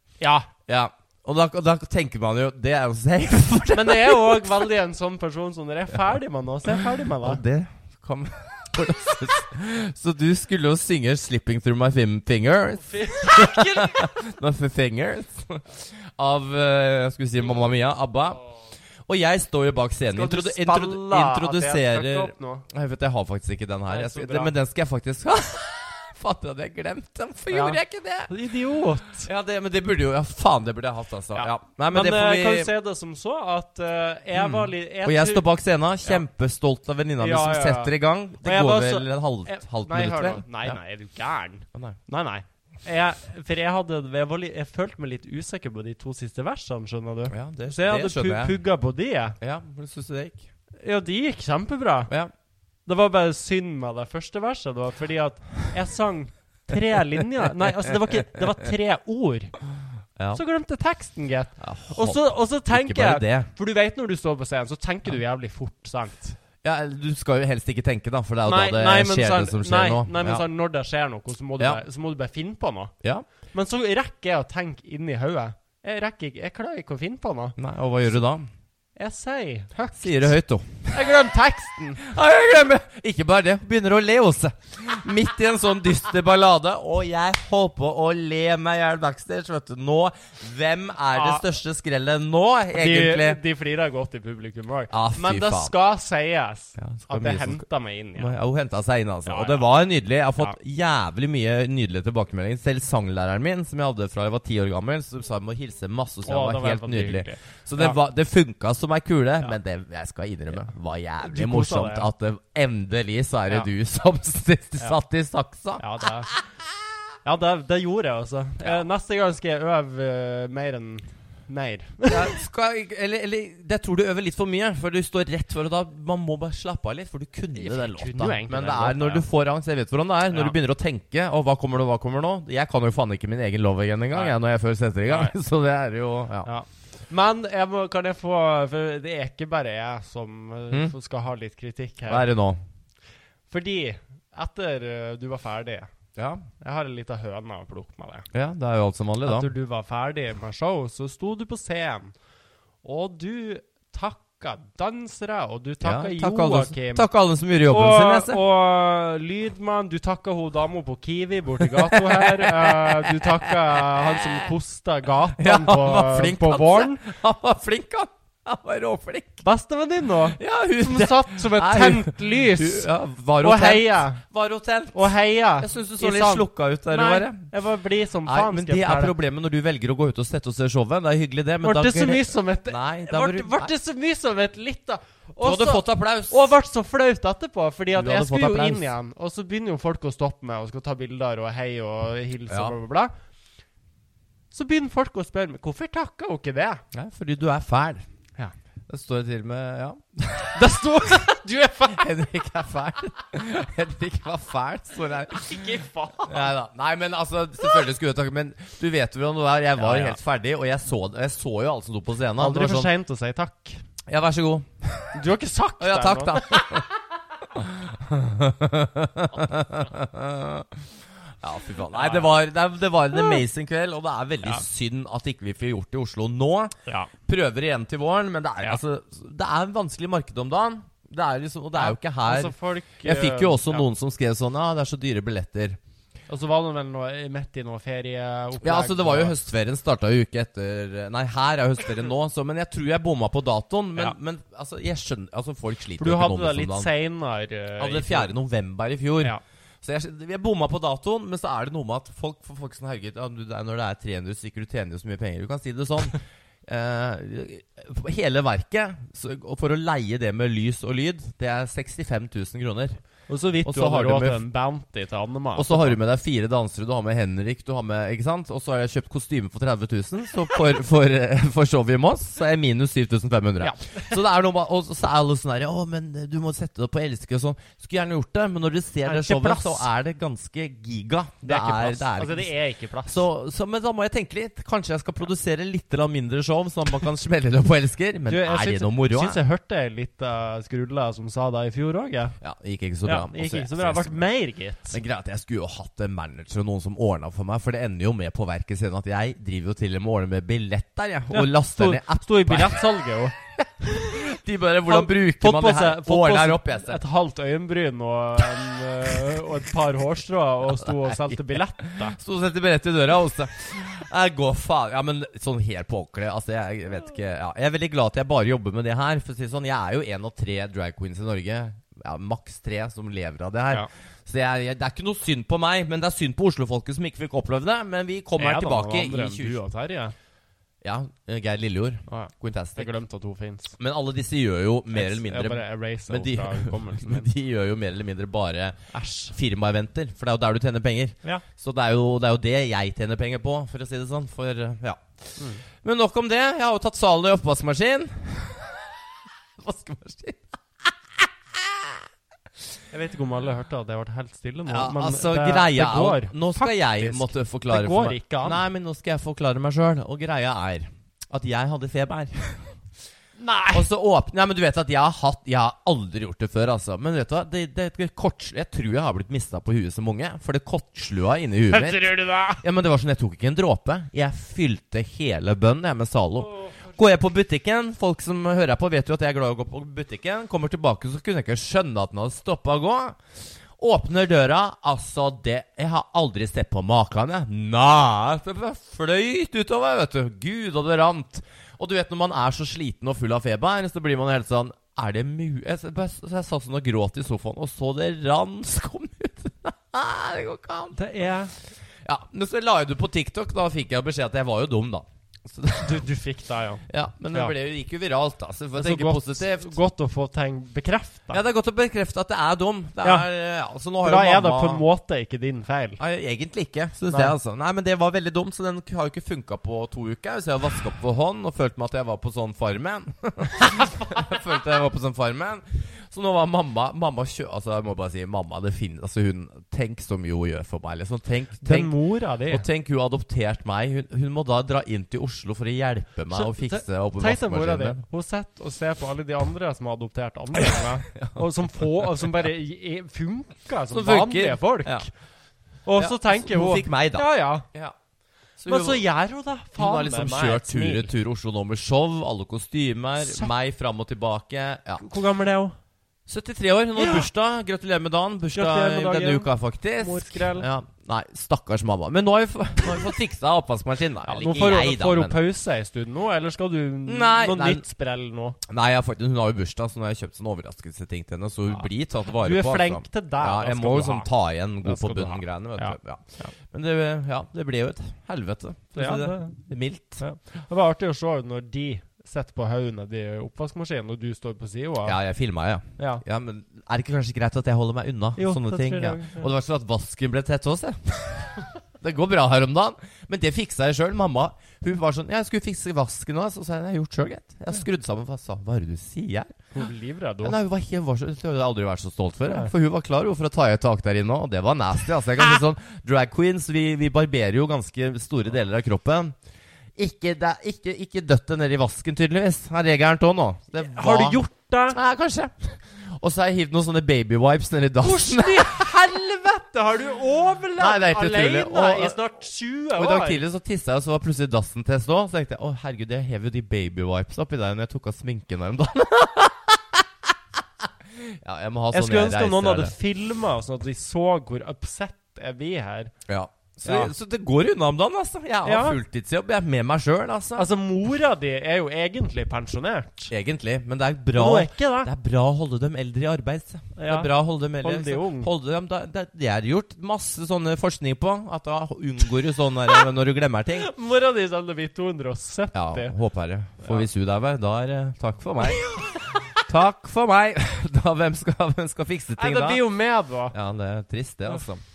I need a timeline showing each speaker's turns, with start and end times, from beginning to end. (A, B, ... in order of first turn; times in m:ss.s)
0:00.2-0:00.5 A
0:00.7-0:04.5 B
0:03.7-0:07.4 A
0:06.8-0:18.4 B
0:12.8-0:14.2 A
0:19.1-0:28.3 B
0:20.1-0:22.7 A
0:23.9-0:24.5 A
0:27.5-0:29.3 A
0:29.2-0:32.7 B
0:31.3-0:35.4 A
0:34.4-0:40.8 B
0:37.2-0:49.4 A
0:47.3-0:48.6 B
0:49.4-0:50.5 B
0:50.8-0:52.1 A
0:52.9-0:59.5 A
1:00.3-1:06.4 A
1:01.6-1:03.5 B
1:06.6-1:10.4 B
1:08.4-1:12.9 A
1:13.5-1:17.6 A
1:17.6-1:18.5 B
1:19.0-1:20.3 A
1:19.9-1:21.0 B
1:20.9-1:22.0 A
1:22.0-1:33.4 B
1:31.1-1:31.4 A
1:32.7-1:38.3 A
1:34.9-1:35.7 B
1:36.8-1:37.6 B
1:38.2-1:56.4 B
1:39.3-1:39.7 A
1:46.2-1:48.0 A
1:51.2-1:52.1 A
1:55.8-1:56.3 A
1:57.2-2:02.3 A
2:02.1-2:16.5 B
2:07.6-2:09.3 A
2:10.3-2:10.6 A
2:15.1-2:15.3 A
2:16.4-2:22.3 A
2:22.1-2:22.6 B
2:23.5-2:25.9 A
2:26.2-2:26.5 B
2:26.6-2:28.3 A
2:28.3-2:29.5 B
2:29.2-2:32.1 A
2:32.8-2:37.1 A
2:35.8-2:38.4 B
2:37.7-2:47.0 A
2:41.7-2:44.2 B
2:45.4-2:49.4 B
2:49.4-2:52.9 A
2:50.4-2:57.5 B
2:53.4-2:54.2 A
2:54.9-2:59.1 A
2:58.3-3:03.7 B
3:01.6-3:13.1 A
3:05.4-3:06.4 B
3:07.9-3:08.9 B
3:12.5-3:12.8 B
3:14.5-3:16.8 A
3:16.9-3:18.1 B
3:18.9-3:20.6 B
3:20.6-3:22.2 A
3:21.9-3:25.5 B
3:25.3-3:26.5 A
3:26.3-3:32.9 B
3:29.8-3:30.2 A
3:32.4-3:33.8 A
3:34.1-3:35.2 B
3:35.1-3:36.9 A
3:35.8-3:36.9 B
3:37.5-3:40.8 B
3:41.4-3:46.7 B
3:41.9-3:42.4 A
3:43.1-3:43.4 A
3:46.9-3:47.1 A
3:47.3-3:55.8 B
3:51.8-3:53.9 A
3:56.3-3:59.4 A
3:58.6-4:06.9 B
4:06.0-4:08.3 A
4:07.8-4:23.0 B
4:23.3-4:26.0 A
4:23.6-4:24.4 B
4:25.6-4:42.5 B
4:33.6-4:34.0 A
4:39.0-4:39.9 A
4:41.4-4:43.3 A
4:43.1-4:49.4 B
4:48.3-4:52.4 A
4:52.4-4:54.2 B
4:53.0-4:55.0 A
4:54.9-5:02.9 B
5:01.3-5:04.2 A
5:03.9-5:07.0 B
5:04.9-5:12.2 A
5:11.8-5:29.6 B
5:28.4-5:30.2 A
5:30.8-5:32.9 B
5:32.1-5:33.7 A
5:33.8-5:48.9 B
5:34.9-5:37.3 A
5:38.9-5:39.4 A
5:49.6-5:50.5 B
5:51.6-5:51.9 B
5:52.9-5:58.6 A
5:54.7-6:02.7 B
6:03.4-6:03.9 A
6:03.7-6:23.2 B
6:11.7-6:12.6 A
6:16.5-6:16.8 A
6:23.8-6:41.0 B
6:41.0-6:41.5 A
6:42.0-6:46.0 B
6:45.8-6:47.5 A
6:46.9-6:49.7 B
6:48.8-6:51.4 A
6:51.3-6:54.8 B
6:53.0-6:53.3 A
6:54.0-6:56.0 A
6:56.0-7:11.9 B
7:11.6-7:12.6 A
7:12.5-7:18.0 B
7:16.3-7:25.1 A
7:20.6-7:21.4 B
7:23.9-7:25.1 B
7:25.8-7:27.7 A
7:26.0-7:27.9 B
7:28.6-7:29.0 B
7:28.7-7:31.1 A
7:29.8-7:35.1 B
7:33.2-7:33.5 A
7:35.0-7:35.8 A
7:36.3-7:45.4 B
7:37.0-7:37.3 A
7:38.6-7:40.7 A
7:44.2-7:48.6 A
7:47.1-7:47.8 B
7:48.7-8:00.2 B
7:51.7-7:54.3 A
7:54.8-7:56.5 A
7:59.0-7:59.6 A
8:00.2-8:05.2 A
8:05.0-8:19.6 B
8:08.4-8:09.5 A
8:19.7-8:20.6 A
8:20.4-8:29.3 B
8:30.0-8:38.8 B
8:33.8-8:35.0 A
8:38.0-8:43.4 A
8:40.8-8:42.2 B
8:43.0-8:49.8 B
8:51.4-8:52.9 B
8:51.9-8:56.1 A
8:56.3-9:00.7 B
8:56.8-8:57.1 A
8:58.6-8:59.0 A
9:00.6-9:03.3 A
9:03.3-9:13.9 B
9:04.3-9:05.1 A
9:07.0-9:08.5 A
9:13.8-9:16.2 A
9:15.7-9:18.9 B
9:16.8-9:17.1 A
9:18.6-9:19.5 A
9:19.6-9:22.8 B
9:22.4-9:23.6 A
9:23.5-9:24.8 B